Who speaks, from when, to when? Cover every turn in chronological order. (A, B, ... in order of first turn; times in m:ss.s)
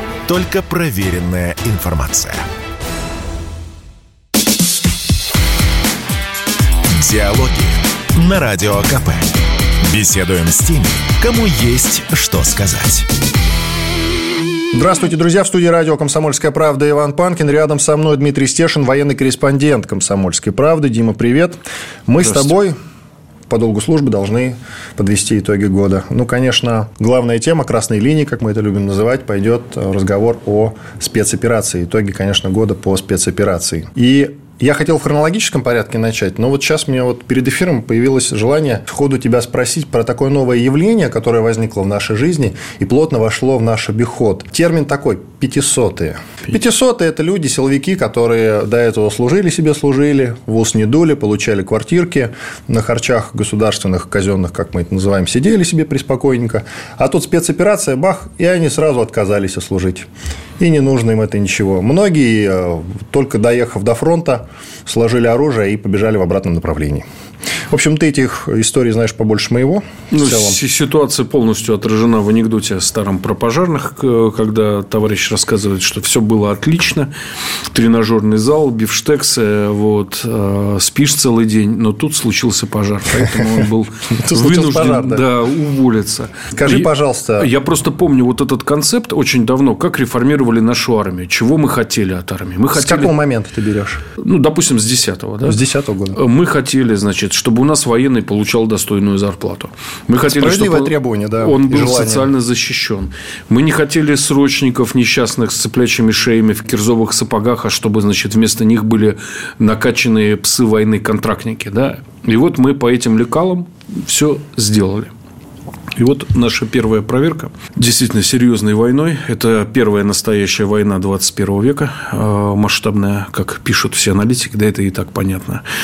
0:00.2-0:02.4 A
0:06.9-0:13.1 A
0:14.7-0:22.8 B
0:23.5-1:00.1 B
1:00.6-1:07.0 B
1:07.7-1:10.6 B
1:10.1-1:17.1 C
1:17.7-1:33.1 C
1:23.4-1:25.2 B
1:26.6-1:27.5 B
1:32.7-1:34.0 B
1:34.2-1:35.6 C
1:35.4-1:36.2 B
1:36.1-1:55.1 C
1:40.3-1:42.3 B
1:56.0-2:05.6 C